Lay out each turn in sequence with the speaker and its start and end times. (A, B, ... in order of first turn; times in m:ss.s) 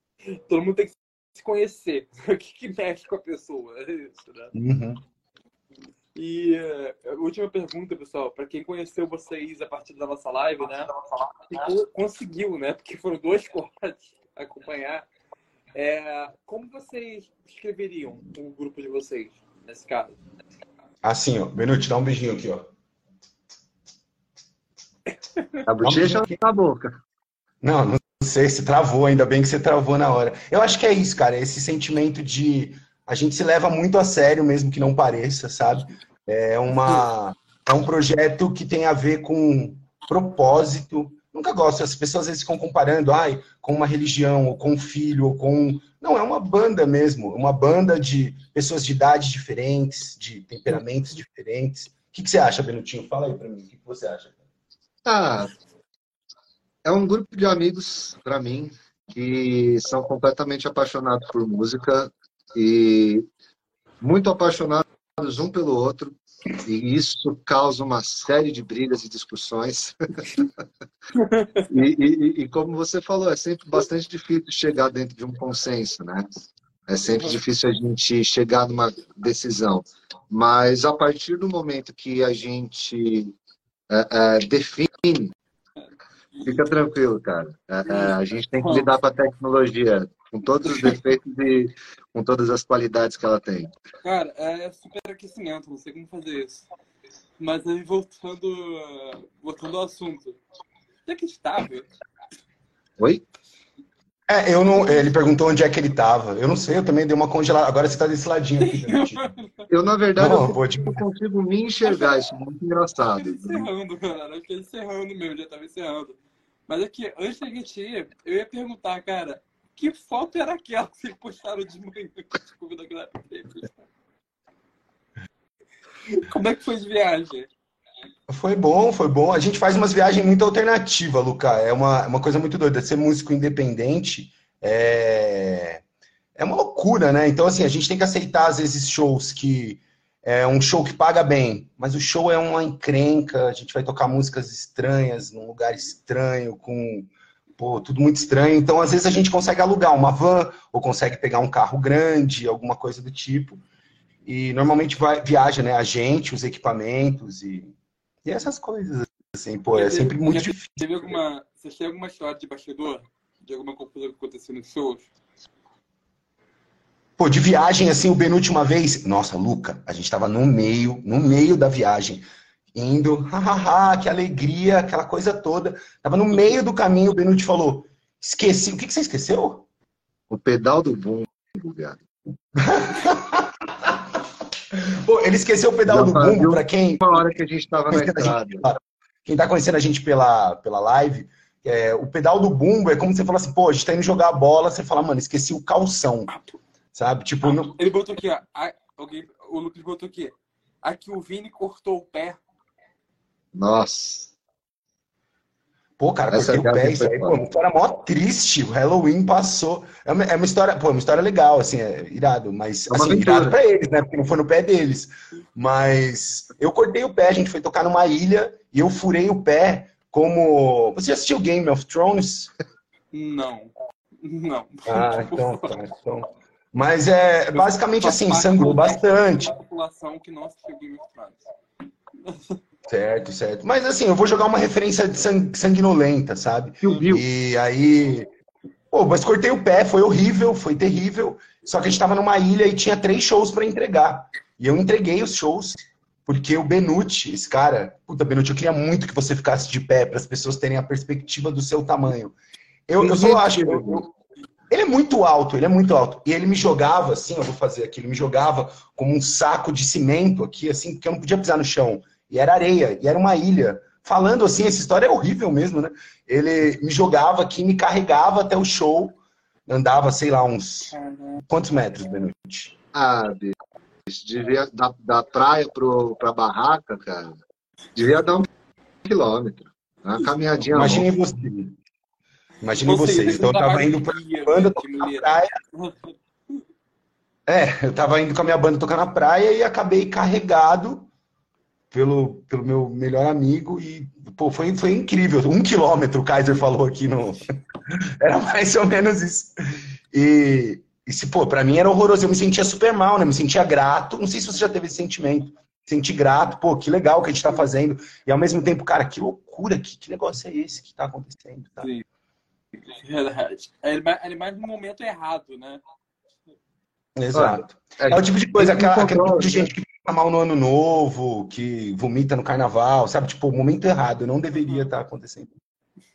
0:00.5-0:04.5 A
0:04.5-0:05.0 B
0:06.1-0:10.9 A
0:11.4-0:15.1 A
0:15.7-0:20.2 A
0:21.0-0:22.6 B
0:25.3-0:25.6 A
0:25.7-0:26.9 C
0:25.8-0:26.3 B
0:27.6-0:54.4 B
0:55.0-0:55.5 C
0:56.8-1:03.3 C
1:04.0-1:10.0 C
1:11.1-1:11.6 A
1:11.7-1:23.4 C
1:23.9-1:25.3 C
1:26.4-1:33.7 C
1:27.9-1:28.9 A
1:34.0-1:36.7 A
1:37.4-1:40.4 A
1:41.0-1:41.9 A
1:43.0-1:43.2 C
1:44.3-1:49.2 B
1:48.6-1:49.7 A
1:49.7-1:53.7 C
1:50.2-1:51.0 B
1:51.8-1:52.2 A
1:53.2-2:03.7 A
2:06.1-2:07.5 A
2:08.3-2:15.8 B
2:16.4-2:33.6 B
2:34.2-2:40.9 B
2:39.7-2:45.1 A
2:47.2-2:59.6 B
3:00.3-3:02.0 C
3:02.6-3:03.5 B
3:04.7-3:07.2 B
3:05.9-3:08.6 C
3:07.9-3:16.3 B
3:16.9-3:17.8 B
3:17.6-3:22.4 A
3:23.5-3:24.3 C
3:26.0-3:42.5 B
3:26.3-3:27.4 C
3:32.9-3:33.6 C
3:43.1-3:45.8 A
3:44.9-3:49.5 B
3:47.5-3:51.4 A
3:52.2-3:52.6 A
3:52.9-3:58.3 B
3:56.8-3:57.2 C
3:58.9-4:12.4 B
4:12.9-4:14.1 B
4:13.0-4:14.0 C
4:14.7-4:32.7 B
4:30.9-4:31.4 A
4:32.9-4:33.6 C
4:34.1-4:37.4 C
4:37.9-4:38.5 C
4:39.0-4:41.2 C
4:40.7-4:41.8 B
4:42.6-4:45.5 B
4:42.8-4:45.9 A
4:47.5-4:51.1 B
4:51.9-4:57.4 B
4:58.2-4:59.5 B
5:00.1-5:11.9 B
5:12.8-5:15.8 A
5:17.2-5:25.5 B
5:17.3-5:19.7 C